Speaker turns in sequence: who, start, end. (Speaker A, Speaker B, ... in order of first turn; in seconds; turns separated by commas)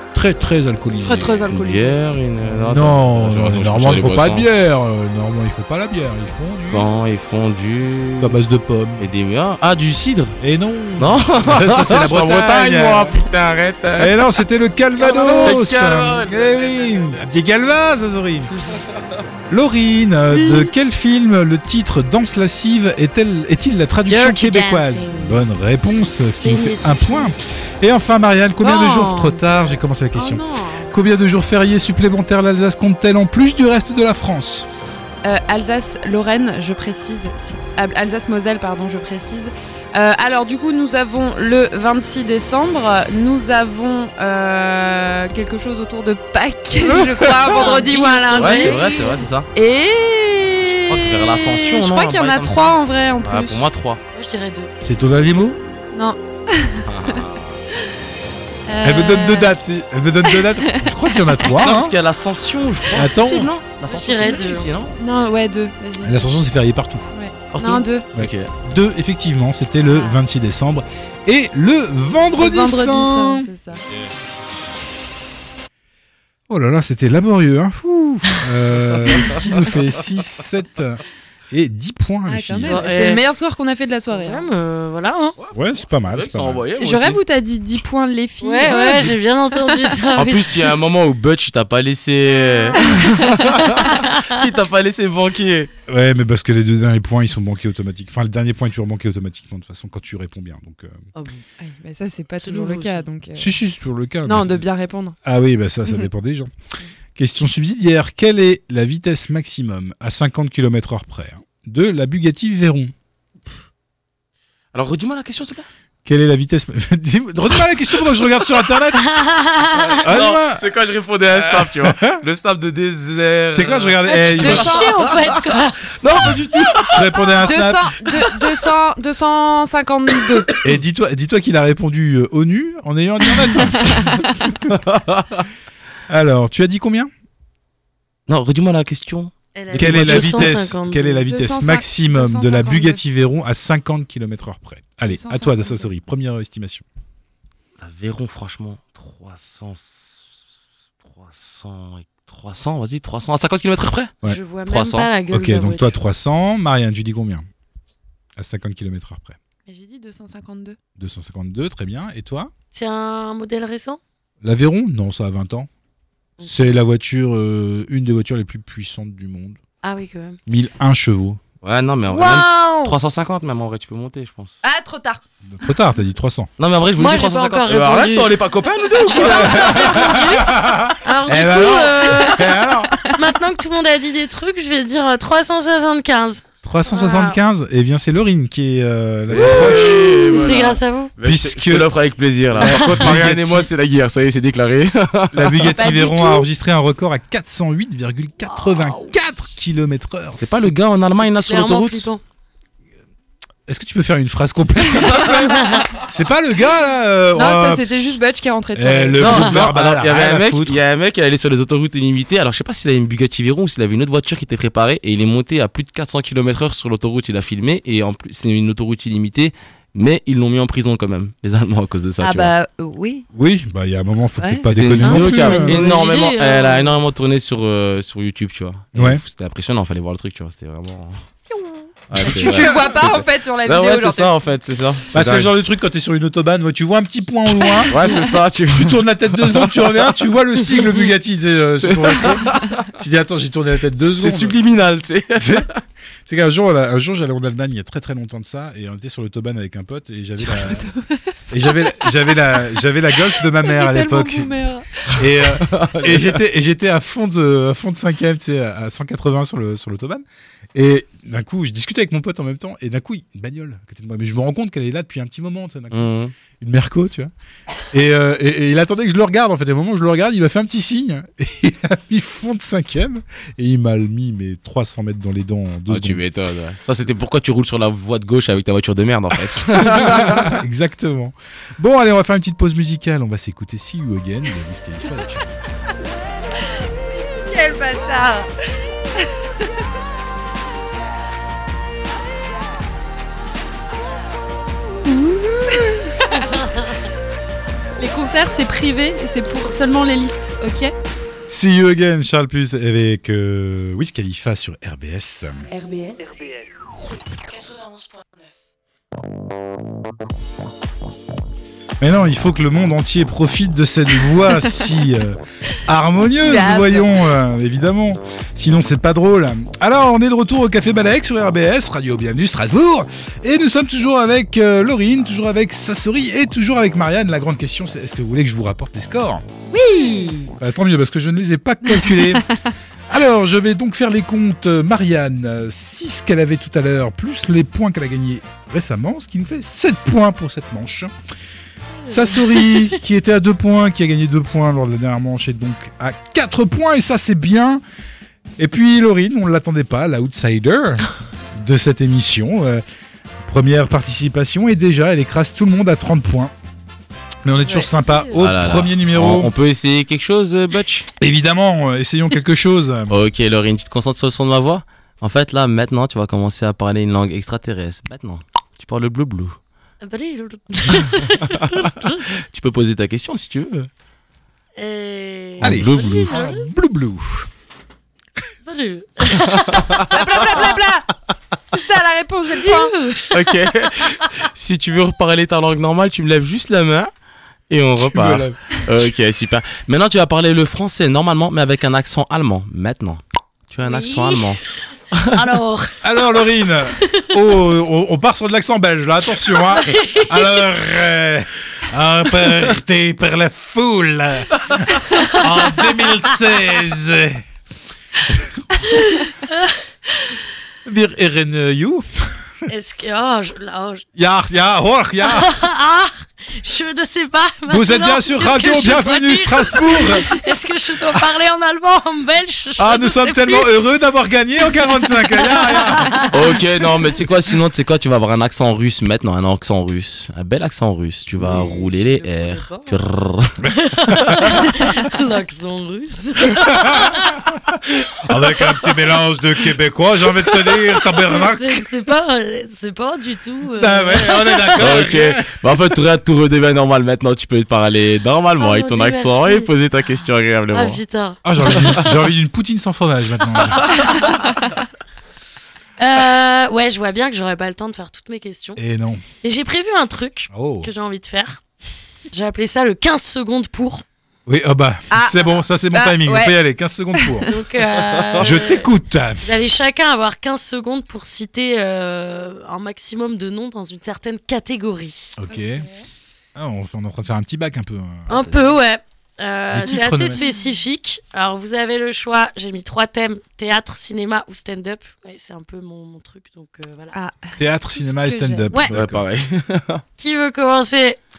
Speaker A: 0.1-1.4, Speaker B: 1.0-2.1, Speaker C: 1.5-4.5, Speaker A: 2.5-6.9, Speaker C: 6.7-8.4, Speaker A: 8.2-9.0, Speaker C: 9.0-10.4, Speaker A: 10.4-13.2, Speaker C: 11.0-14.2, Speaker A: 14.0-18.5, Speaker D: 15.0-16.0, Speaker C: 15.2-17.2, Speaker D: 18.5-18.8, Speaker A: 19.5-34.7, Speaker D: 20.3-20.7, Speaker D: 24.1-25.4, Speaker D: 26.1-27.3, Speaker B: 28.6-29.4, Speaker B: 30.1-30.9, Speaker B: 35.2-53.6, Speaker A: 46.8-47.8, Speaker D: 47.5-49.2, Speaker C: 48.4-49.5, Speaker C: 50.6-54.0, Speaker D: 54.1-54.7, Speaker A: 54.8-55.6, Speaker B: 55.9-57.2, Speaker C: 56.9-57.6, Speaker B: 58.7-59.6, Speaker A: 58.8-61.9, Speaker B: 60.2-61.0, Speaker C: 61.5-65.0, Speaker A: 62.9-63.5, Speaker D: 63.9-64.7, Speaker B: 65.0-66.3, Speaker A: 66.0-67.1, Speaker B: 67.1-68.0, Speaker C: 67.5-68.5, Speaker A: 68.2-73.5, Speaker B: 69.9-70.2, Speaker B: 72.4-73.8, Speaker A: 76.5-82.8, Speaker C: 78.9-79.6, Speaker B: 82.3-84.5, Speaker D: 82.6-83.2, Speaker D: 84.1-85.4, Speaker C: 85.4-87.2, Speaker A: 85.5-86.6, Speaker B: 86.8-89.1, Speaker D: 88.4-90.8, Speaker A: 88.6-89.2, Speaker C: 90.2-95.7, Speaker D: 92.3-94.4, Speaker B: 92.9-93.1, Speaker A: 95.9-101.0, Speaker D: 101.2-101.4, Speaker B: 101.6-103.6, Speaker D: 102.4-103.1, Speaker A: 103.4-104.6, Speaker B: 104.2-105.2, Speaker A: 105.2-106.5, Speaker A: 107.2-112.9, Speaker C: 114.7-115.7, Speaker A: 116.0-119.1, Speaker D: 118.9-120.0, Speaker C: 119.7-125.4, Speaker A: 120.0-120.7, Speaker A: 121.3-122.2, Speaker A: 123.5-124.9, Speaker D: 124.0-125.8, Speaker B: 124.4-125.1, Speaker C: 126.0-127.5, Speaker A: 126.9-128.0, Speaker B: 127.5-130.6, Speaker A: 130.6-134.7, Speaker C: 134.7-135.5, Speaker A: 136.1-137.1, Speaker C: 138.3-140.6, Speaker D: 139.6-141.2, Speaker A: 139.7-146.8, Speaker B: 141.3-143.0, Speaker B: 145.1-145.9, Speaker C: 147.8-150.4, Speaker C: 151.0-155.1, Speaker D: 154.2-155.9, Speaker A: 155.3-157.5, Speaker A: 158.4-159.4, Speaker B: 159.7-160.8, Speaker A: 161.0-162.5, Speaker D: 162.7-164.0, Speaker A: 164.4-165.7, Speaker D: 166.4-166.7, Speaker A: 166.4-169.6, Speaker D: 169.8-170.4, Speaker A: 170.5-171.4, Speaker C: 171.6-174.6, Speaker D: 172.1-173.0, Speaker B: 174.6-175.2, Speaker A: 175.5-176.5, Speaker C: 176.6-180.1, Speaker D: 177.0-178.4, Speaker D: 179.0-182.5, Speaker B: 179.2-180.2, Speaker A: 179.2-183.0, Speaker B: 181.6-182.4, Speaker D: 183.1-187.4, Speaker A: 186.6-190.3, Speaker C: 189.3-195.8, Speaker D: 189.4-191.1, Speaker A: 191.2-191.9, Speaker A: 192.6-193.7, Speaker D: 192.6-193.1, Speaker A: 195.3-200.7, Speaker B: 195.7-196.5, Speaker D: 198.5-199.1, Speaker C: 200.3-202.1, Speaker D: 201.2-202.2, Speaker A: 203.7-207.9, Speaker D: 205.4-205.9, Speaker B: 207.3-209.3, Speaker A: 208.8-210.8, Speaker C: 209.2-222.5, Speaker B: 222.2-223.3, Speaker A: 223.3-225.9, Speaker B: 224.4-225.2, Speaker C: 224.7-231.2, Speaker D: 225.0-227.0, Speaker A: 228.9-229.2, Speaker B: 231.5-234.5, Speaker C: 232.1-235.5, Speaker A: 232.1-233.2, Speaker A: 235.1-238.0, Speaker C: 237.8-240.2, Speaker A: 238.7-244.6, Speaker C: 241.8-242.9, Speaker C: 244.0-245.7, Speaker A: 245.4-245.7, Speaker A: 246.3-250.9, Speaker B: 250.4-251.2, Speaker A: 251.5-254.5, Speaker B: 251.9-252.6, Speaker B: 253.2-255.1, Speaker A: 255.1-267.3, Speaker C: 255.7-256.4, Speaker C: 265.9-266.3, Speaker A: 267.9-276.2, Speaker C: 275.9-280.6, Speaker A: 279.8-285.6, Speaker B: 287.1-288.8, Speaker A: 295.1-296.1, Speaker B: 295.7-296.5, Speaker D: 296.4-296.9, Speaker B: 298.0-300.9, Speaker A: 301.5-305.7, Speaker B: 305.7-306.3, Speaker A: 312.0-329.4, Speaker B: 316.3-317.2, Speaker B: 329.7-330.5, Speaker A: 330.6-332.5, Speaker A: 333.1-341.1, Speaker D: 342.1-342.9, Speaker A: 342.1-347.8, Speaker A: 348.6-352.8, Speaker A: 353.4-356.5, Speaker A: 357.4-359.5, Speaker D: 357.7-358.4, Speaker C: 358.4-361.1, Speaker A: 361.2-363.2, Speaker C: 363.1-369.6, Speaker D: 370.0-372.3, Speaker C: 372.2-373.9, Speaker D: 374.8-376.7, Speaker C: 375.6-376.4, Speaker A: 375.6-377.5, Speaker D: 378.6-380.8, Speaker B: 380.1-381.1, Speaker B: 381.7-382.9, Speaker D: 382.6-383.4, Speaker C: 383.3-387.1, Speaker C: 387.7-394.6, Speaker A: 388.1-388.6, Speaker D: 393.8-394.6, Speaker D: 395.3-396.0, Speaker A: 396.0-407.4, Speaker D: 399.7-400.4, Speaker D: 405.1-405.5, Speaker A: 408.3-409.0, Speaker D: 408.9-409.8, Speaker A: 410.9-412.6, Speaker D: 412.7-414.1, Speaker A: 414.2-415.5, Speaker D: 415.2-423.7, Speaker A: 417.7-420.3, Speaker A: 422.8-426.2, Speaker D: 425.0-426.6, Speaker C: 426.3-433.6, Speaker D: 431.4-433.0, Speaker A: 433.6-434.6, Speaker D: 433.6-437.4, Speaker A: 436.6-441.9, Speaker D: 440.6-445.1, Speaker A: 443.8-445.8, Speaker C: 444.8-451.0, Speaker D: 448.6-449.7, Speaker D: 450.7-452.1, Speaker A: 451.4-454.2, Speaker D: 453.9-454.4, Speaker D: 456.0-458.8, Speaker A: 458.8-459.2, Speaker D: 459.4-461.6, Speaker A: 460.5-460.9, Speaker D: 462.3-464.0, Speaker A: 464.5-467.5, Speaker B: 465.1-466.6, Speaker B: 467.2-467.5, Speaker D: 467.5-468.9, Speaker C: 468.0-468.6, Speaker A: 468.4-469.6, Speaker D: 469.4-475.4, Speaker A: 475.4-475.9, Speaker B: 475.5-476.1, Speaker A: 476.6-478.5, Speaker D: 478.3-487.2, Speaker A: 479.7-480.4, Speaker B: 487.1-488.7, Speaker A: 487.6-489.2, Speaker C: 488.9-490.0, Speaker D: 490.2-491.2